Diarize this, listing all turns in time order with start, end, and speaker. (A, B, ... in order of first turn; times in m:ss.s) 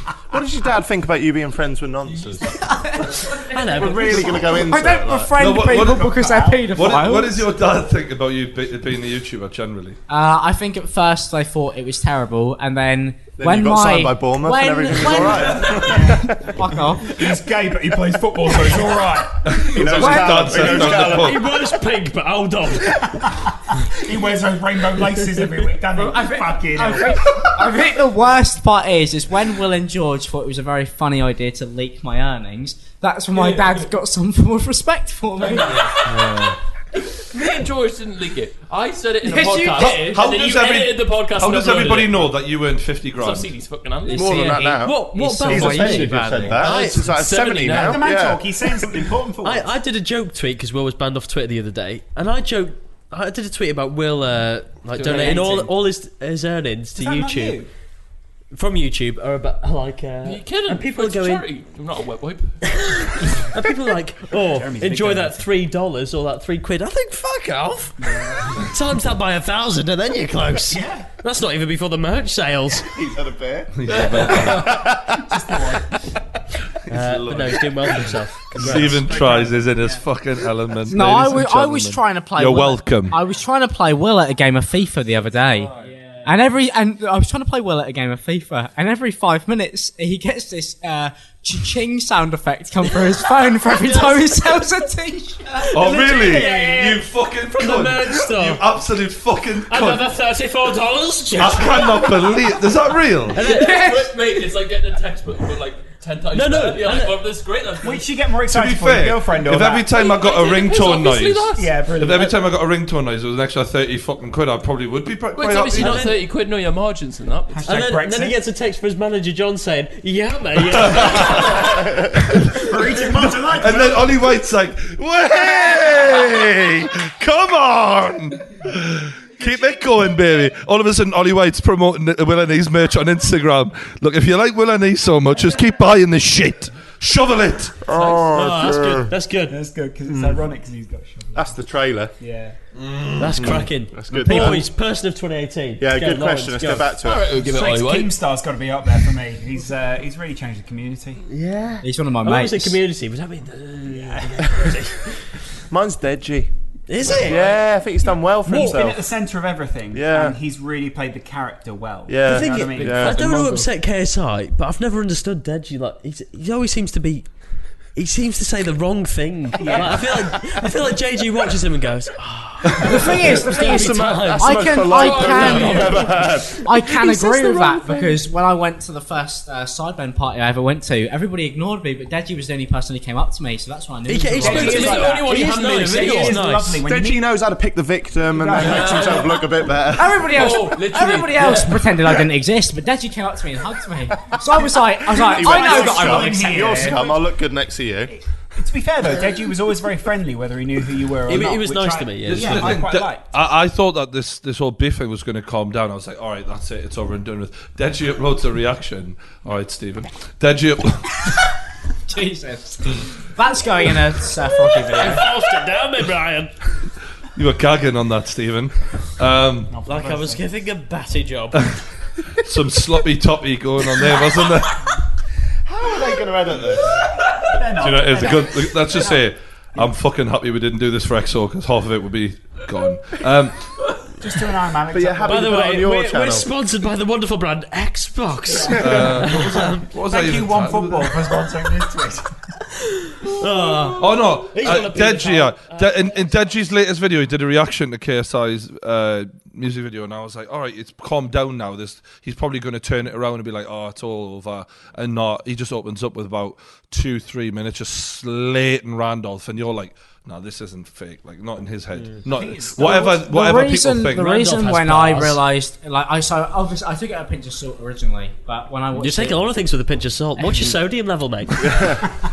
0:00.3-0:02.5 A
0:02.1-0:04.1 B
0:02.6-0:03.4 C
0:03.4-0:04.6 D
0:03.7-0:05.3 A
0:04.1-0:07.5 C
0:05.4-0:06.1 E
0:05.5-0:06.8 F
0:06.7-0:10.0 E
0:10.1-0:17.3 C
0:13.4-0:16.8 A
0:15.4-0:16.4 F
0:17.0-0:19.9 F
0:19.4-0:21.5 E
0:19.5-0:21.4 A
0:19.9-0:20.9 C
0:20.7-0:20.9 F
0:21.0-0:23.2 D
0:23.0-0:27.5 F
0:25.9-0:36.0 C
0:33.3-0:33.9 B
0:35.4-0:36.1 B
0:36.1-0:36.5 E
0:37.0-0:42.4 B
0:39.2-0:40.2 C
0:39.8-0:43.5 E
0:43.2-0:44.5 B
0:44.0-0:46.7 C
0:44.1-0:49.0 A
0:44.8-0:47.9 D
0:47.2-0:47.9 B
0:47.6-0:49.7 F
0:49.4-0:57.6 D
0:55.0-0:55.6 B
0:55.0-0:55.7 F
0:57.0-0:57.7 F
0:58.5-1:01.5 D
1:00.2-1:03.3 B
1:02.6-1:12.9 D
1:04.3-1:05.5 F
1:08.0-1:08.6 F
1:10.7-1:11.1 F
1:12.9-1:13.8 A
1:13.7-1:14.8 E
1:13.9-1:14.8 B
1:14.4-1:15.4 A
1:15.1-1:16.0 F
1:16.9-1:19.2 D
1:16.9-1:23.2 E
1:18.6-1:20.1 F
1:20.9-1:25.7 C
1:25.8-1:26.3 D
1:26.2-1:35.7 C
1:33.7-1:34.6 D
1:35.6-1:38.7 D
1:35.7-1:40.1 E
1:35.9-1:36.9 F
1:39.7-1:42.1 D
1:41.4-1:43.4 E
1:43.3-1:43.9 D
1:43.4-1:48.1 B
1:43.4-1:44.1 C
1:46.3-1:47.2 D
1:47.8-1:50.0 F
1:48.4-1:56.1 E
1:49.9-1:51.8 B
1:51.5-1:52.4 F
1:55.4-1:57.7 B
1:55.7-1:56.2 D
1:57.5-1:58.4 F
1:57.7-2:01.8 D
2:00.7-2:02.7 E
2:02.4-2:04.3 F
2:03.3-2:17.9 E
2:17.8-2:19.1 A
2:18.3-2:19.6 D
2:19.5-2:21.6 F
2:21.4-2:22.1 A
2:22.2-2:22.6 F
2:22.8-2:23.6 E
2:23.2-2:27.0 D
2:23.4-2:24.7 A
2:24.3-2:24.6 F
2:25.8-2:27.3 A
2:27.0-2:28.2 B
2:27.3-2:31.2 F
2:31.3-2:35.4 D
2:31.8-2:32.8 C
2:33.9-2:34.8 F
2:35.7-2:36.5 A
2:36.9-2:37.5 D
2:37.2-2:39.0 A
2:38.0-2:43.2 F
2:39.9-2:40.4 A
2:42.1-2:43.2 A
2:42.2-2:47.3 D
2:42.8-2:43.7 B
2:47.9-2:58.2 D
2:49.5-2:50.7 F
2:52.8-3:05.1 C
2:52.9-2:56.7 A
2:54.9-2:56.1 B
3:04.1-3:06.8 D
3:04.4-3:07.2 F
3:04.4-3:06.4 B
3:06.8-3:10.6 A
3:08.3-3:09.4 F
3:08.6-3:09.5 B
3:09.9-3:17.0 C
3:10.2-3:12.2 B
3:15.1-3:18.2 A
3:15.2-3:17.3 F
3:18.1-3:23.4 F
3:21.3-3:22.8 D
3:22.3-3:31.2 E
3:32.1-3:35.3 C
3:34.9-3:36.5 D
3:37.4-3:39.7 E
3:39.7-3:40.5 F
3:39.8-3:41.8 D
3:42.3-3:44.9 E
3:45.7-3:46.9 A
3:47.2-3:49.9 F
3:47.8-3:53.7 E
3:54.2-3:55.9 F
3:54.9-3:56.5 A
3:55.3-3:59.9 D
3:58.5-4:02.4 F
3:58.8-4:01.3 E
4:03.0-4:06.2 D
4:04.0-4:24.6 E
4:22.2-4:23.4 F
4:23.2-4:29.5 C
4:24.3-4:25.4 D
4:28.9-4:31.9 D
4:30.4-4:30.7 C
4:31.6-4:32.1 A